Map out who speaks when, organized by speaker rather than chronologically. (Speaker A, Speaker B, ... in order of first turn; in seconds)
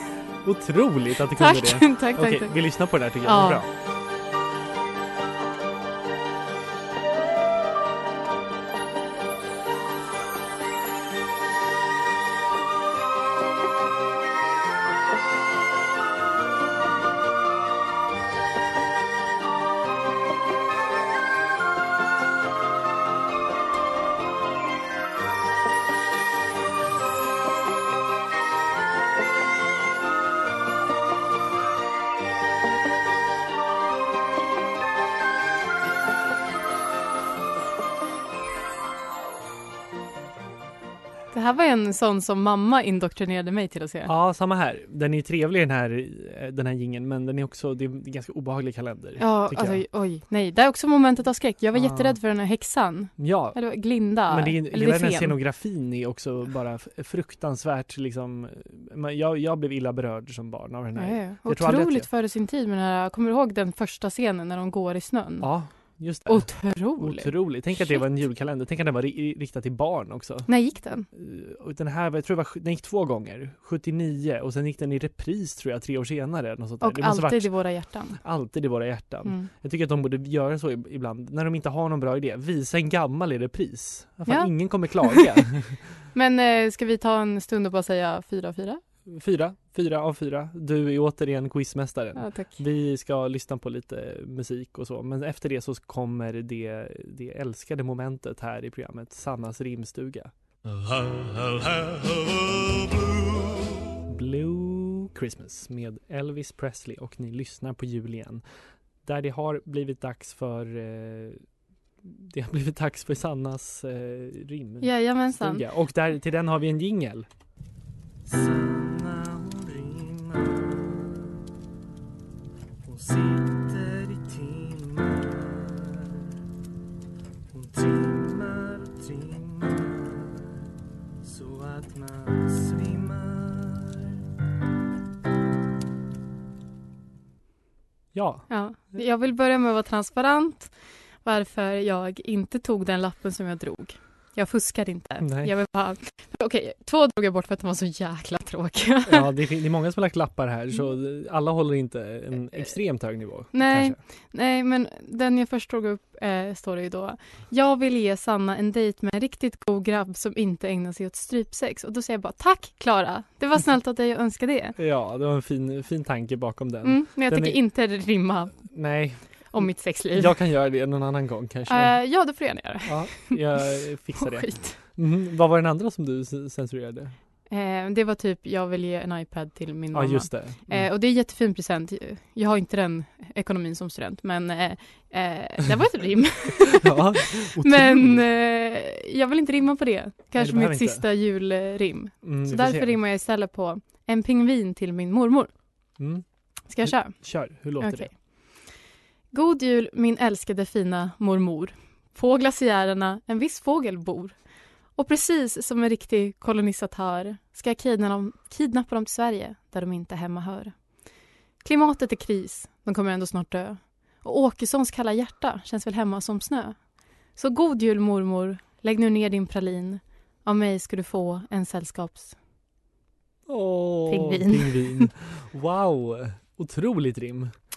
Speaker A: 0.4-3.7, 44.0-49.8, 51.7-52.2, 53.2-53.6, 54.3-62.1, 65.4-70.5, 71.1-85.8, 89.1-100.3, 100.8-103.2, 104.0-108.4, 109.0-111.4, 112.0-117.3, 118.2-121.4, 122.8-126.4, 127.5-130.6, 131.2-134.2, 138.1-138.5, 145.2-145.5, 149.1-154.0, 164.8-167.6, 168.7-172.0, 172.8-177.2, 179.9-180.9, 186.7-188.2, 190.3-191.1, 192.2-193.0, 196.0-196.2, 196.8-198.1, 223.5-227.5
Speaker B: 1.4-3.6, 41.3-44.1, 49.2-55.4, 61.0-68.0, 70.5-71.1, 76.8-78.2, 79.2-79.5, 84.3-85.3, 86.1-88.8, 92.2-92.6, 114.8-115.7, 138.5-149.3, 153.5-164.8, 166.8-168.8, 169.5-170.3, 171.7-174.8, 177.5-195.5, 196.7-198.1, 199.3-204.4, 205.0-210.8, 211.6-216.8, 217.3-222.4, 224.1-225.1